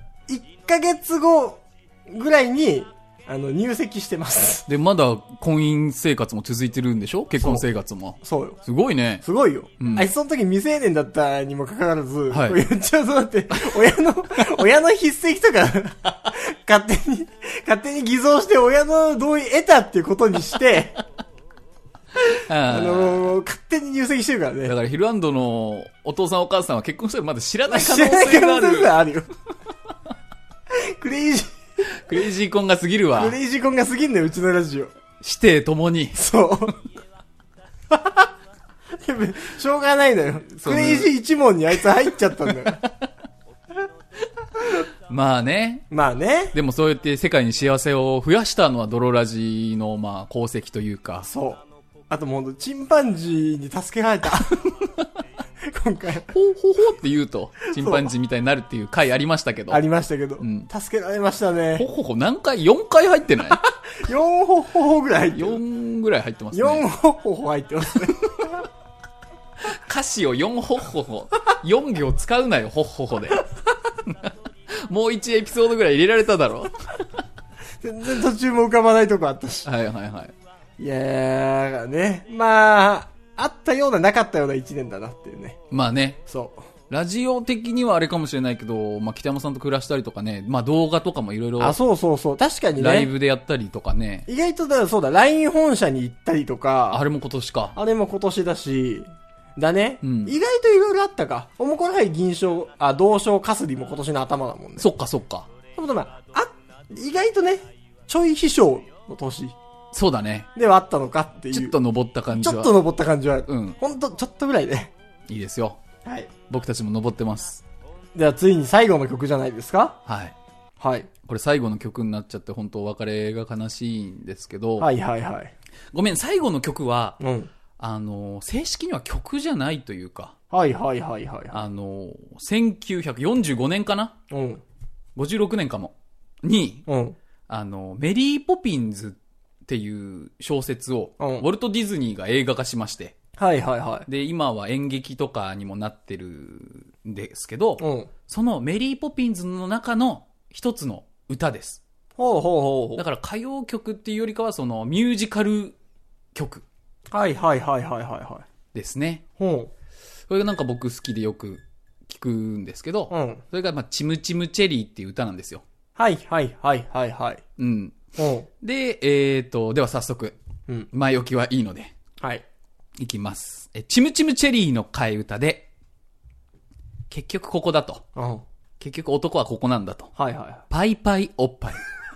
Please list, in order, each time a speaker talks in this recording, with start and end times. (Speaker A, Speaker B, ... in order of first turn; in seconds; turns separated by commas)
Speaker A: 0.3-4.7, Speaker B: 4.7-9.2, Speaker A: 7.4-7.6, Speaker A: 8.2-8.6, Speaker A: 9.2-20.9, Speaker B: 9.8-10.1, Speaker B: 12.3-12.6, Speaker B: 22.3-23.3, Speaker A: 22.7-24.7, Speaker B: 24.6-28.9, Speaker A: 27.7-29.3, Speaker A: 30.7-31.6, Speaker B: 32.0-33.4, Speaker A: 33.1-34.9, Speaker B: 35.2-36.2, Speaker A: 36.1-36.8, Speaker A: 37.9-38.2, Speaker A: 39.0-42.8, Speaker B: 40.6-41.1, Speaker B: 45.1-45.9, Speaker A: 45.9-46.5, Speaker B: 46.5-51.3, Speaker A: 51.3-54.6, Speaker A: 55.7-56.3, Speaker B: 56.3-59.8, Speaker A: 57.8-58.1, Speaker A: 59.7-61.8, Speaker B: 60.4-60.7, Speaker B: 61.8-63.6, Speaker A: 64.0-65.6, Speaker B: 65.3-66.9, Speaker A: 66.5-68.3, Speaker B: 69.7-73.4, Speaker B: 74.8-76.7, Speaker A: 77.8-79.7, Speaker B: 79.7-80.3, Speaker A: 80.8-85.6, Speaker B: 85.7-86.2, Speaker A: 86.3-86.6, Speaker B: 86.9-91.8, Speaker A: 91.6-93.1, Speaker B: 92.8-94.3, Speaker A: 94.3-97.0, Speaker B: 96.9-97.7, Speaker A: 97.7-104.9, Speaker B: 100.0-100.3, Speaker B: 104.8-105.5, Speaker A: 105.7-109.5, Speaker B: 109.9-110.5, Speaker A: 110.5-111.7, Speaker B: 111.5-112.8, Speaker A: 112.3-114.9, Speaker B: 113.5-113.8, Speaker B: 115.3-115.8, Speaker A: 116.0-116.3, Speaker B: 116.5-117.6, Speaker A: 118.1-120.0, Speaker B: 120.0-120.3, Speaker A: 120.8-121.1, Speaker B: 121.3-124.9, Speaker A: 124.8-125.5, Speaker B: 125.9-127.2, Speaker A: 127.2-127.5, Speaker B: 127.8-130.3, Speaker A: 130.5-131.6, Speaker B: 131.5-134.1, Speaker A: 134.3-134.6, Speaker B: 135.2-136.9, Speaker A: 136.9-137.2, Speaker B: 137.5-143.1, Speaker A: 141.2-141.4, Speaker A: 143.4-144.1, Speaker B: 144.1-151.8, Speaker A: 147.8-148.1, Speaker A: 152.2-153.0, Speaker B: 152.9-155.7, Speaker B: 156.3-156.6, Speaker A: 157.1-158.4, Speaker B: 158.7-159.2, Speaker A: 159.4-159.7, Speaker B: 160.3-165.6, Speaker A: 163.1-163.4, Speaker A: 166.0-167.4, Speaker B: 167.6-168.0, Speaker A: 168.2-168.5, Speaker B: 168.6-170.4, Speaker B: 170.9-171.9, Speaker B: 173.0-175.7, Speaker B: 177.1-178.1, Speaker A: 178.2-178.4, Speaker B: 178.8-180.1, Speaker A: 180.2-180.6, Speaker B: 180.7-181.8